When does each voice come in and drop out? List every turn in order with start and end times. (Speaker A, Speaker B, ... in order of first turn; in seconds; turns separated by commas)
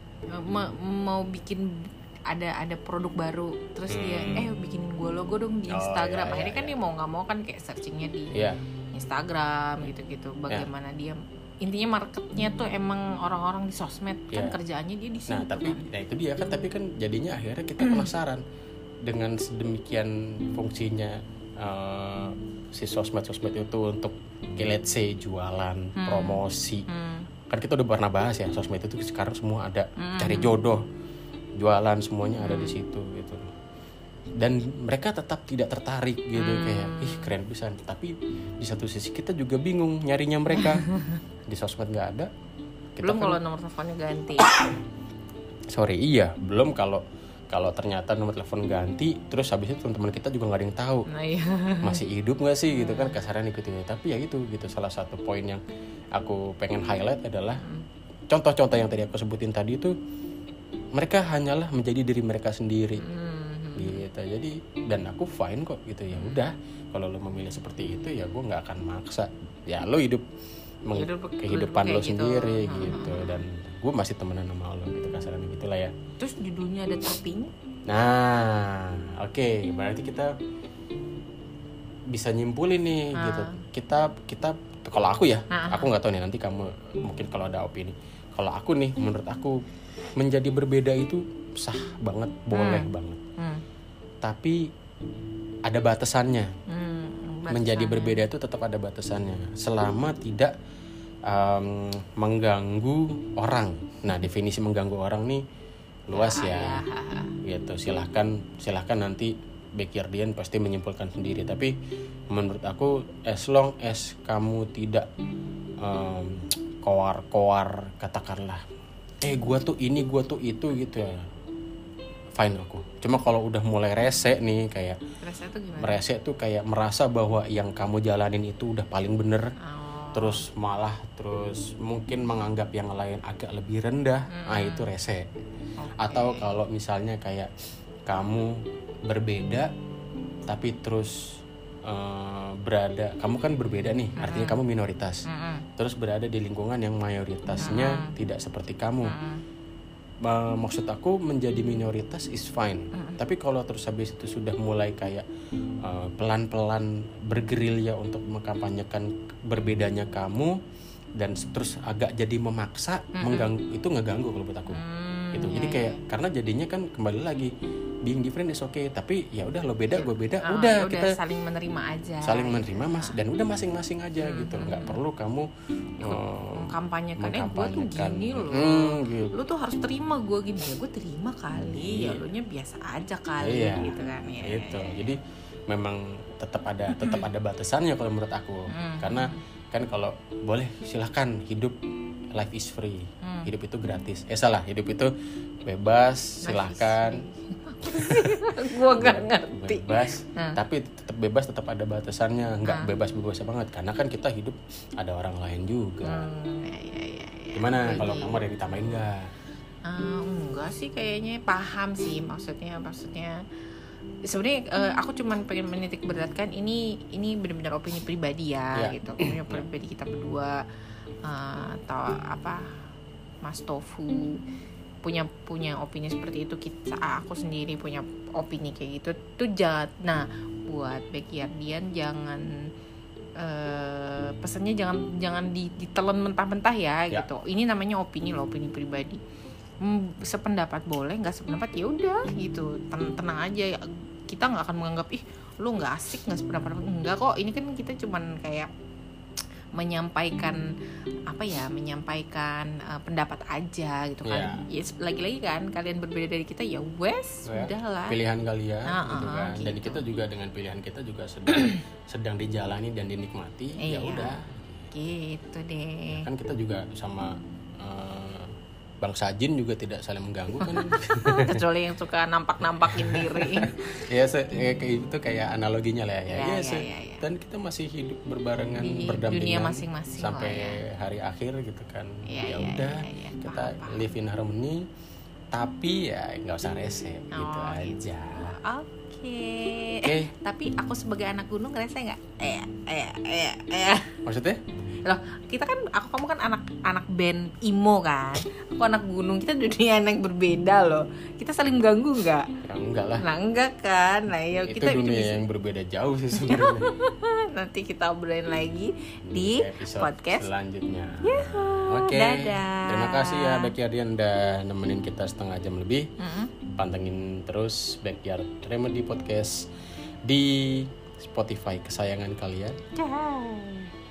Speaker A: 0.3-8.4, Speaker B: 3.9-4.5, Speaker B: 5.7-6.8, Speaker B: 8.3-8.6, Speaker A: 8.9-15.8, Speaker B: 14.3-14.6, Speaker B: 15.3-18.4, Speaker A: 17.8-18.1, Speaker B: 19.1-26.9, Speaker A: 26.0-27.3, Speaker B: 27.5-30.8, Speaker A: 30.0-30.5, Speaker B: 31.6-33.4, Speaker A: 32.4-32.8, Speaker B: 34.4-40.9, Speaker A: 36.4-37.3, Speaker A: 40.5-41.2, Speaker B: 41.5-42.3, Speaker B: 43.0-43.4, Speaker A: 43.0-44.5, Speaker B: 44.4-44.8, Speaker B: 45.7-51.1, Speaker A: 51.1-52.0, Speaker B: 51.8-55.6, Speaker A: 52.7-53.2, Speaker B: 56.2-57.6, Speaker B: 58.3-60.0, Speaker B: 61.0-63.0, Speaker A: 63.0-64.0, Speaker B: 63.8-70.2, Speaker A: 66.1-66.4, Speaker B: 70.9-75.9, Speaker A: 70.9-73.4, Speaker A: 76.2-77.5, Speaker B: 77.9-80.3, Speaker B: 82.1-89.6, Speaker A: 83.2-83.6, Speaker A: 85.5-85.9, Speaker B: 90.2-93.2, Speaker A: 92.5-93.6, Speaker B: 94.2-94.6, Speaker B: 95.7-96.5, Speaker A: 96.7-98.2, Speaker B: 97.5-100.5, Speaker B: 101.3-105.4, Speaker B: 106.1-106.8, Speaker A: 106.1-107.3, Speaker B: 107.4-111.7, Speaker B: 112.3-115.1, Speaker B: 115.8-118.6, Speaker B: 119.2-121.2, Speaker B: 122.4-125.0, Speaker A: 125.2-126.0, Speaker B: 125.8-129.5, Speaker A: 129.6-130.4, Speaker B: 130.1-135.3, Speaker A: 134.3-134.9, Speaker A: 135.8-136.5, Speaker B: 136.0-137.5, Speaker B: 138.1-138.5, Speaker B: 139.1-139.7, Speaker B: 140.5-141.2, Speaker B: 141.9-145.2, Speaker A: 144.2-144.6, Speaker A: 145.3-145.7, Speaker B: 145.8-149.2, Speaker A: 147.6-148.1, Speaker A: 149.1-149.4, Speaker B: 150.2-155.2, Speaker A: 152.9-153.2, Speaker B: 155.8-160.6, Speaker B: 161.2-164.8, Speaker A: 163.2-163.5, Speaker A: 164.7-166.0, Speaker B: 165.3-167.5, Speaker B: 168.1-171.2, Speaker A: 170.0-173.2, Speaker B: 172.2-179.3, Speaker A: 174.2-175.0, Speaker A: 176.0-185.2, Speaker B: 181.6-182.2, Speaker B: 183.4-185.2, Speaker B: 185.7-191.8, Speaker A: 186.9-187.2, Speaker A: 188.7-189.4, Speaker B: 192.3-195.1, Speaker A: 193.2-193.5, Speaker B: 195.7-197.2, Speaker A: 196.4-200.6, Speaker B: 197.9-198.3, Speaker B: 198.9-206.3, Speaker A: 202.7-202.9, Speaker A: 206.0-208.4, Speaker B: 207.6-209.3, Speaker A: 209.9-213.4, Speaker A: 214.3-220.6, Speaker B: 218.8-219.7, Speaker A: 221.2-222.7, Speaker A: 223.4-224.4, Speaker A: 225.0-232.4, Speaker A: 233.4-239.2, Speaker A: 239.8-248.7, Speaker A: 249.8-250.6, Speaker A: 251.3-258.2, Speaker B: 254.3-254.6, Speaker B: 257.5-264.9, Speaker A: 258.9-260.0, Speaker A: 263.8-264.4, Speaker A: 264.9-266.3, Speaker B: 266.1-271.6, Speaker A: 270.6-274.0, Speaker B: 273.0-284.8, Speaker A: 276.3-277.2, Speaker A: 278.8-280.8, Speaker A: 282.3-284.1, Speaker B: 285.5-288.6, Speaker A: 287.3-294.2, Speaker B: 290.0-290.3, Speaker B: 294.3-294.6, Speaker A: 295.1-302.5, Speaker B: 302.6-303.2, Speaker A: 303.2-305.4, Speaker B: 304.7-306.9, Speaker A: 306.4-310.5, Speaker B: 309.3-316.1, Speaker A: 311.2-313.7, Speaker A: 316.2-316.5, Speaker B: 316.8-319.7, Speaker B: 320.3-322.8, Speaker A: 322.9-323.9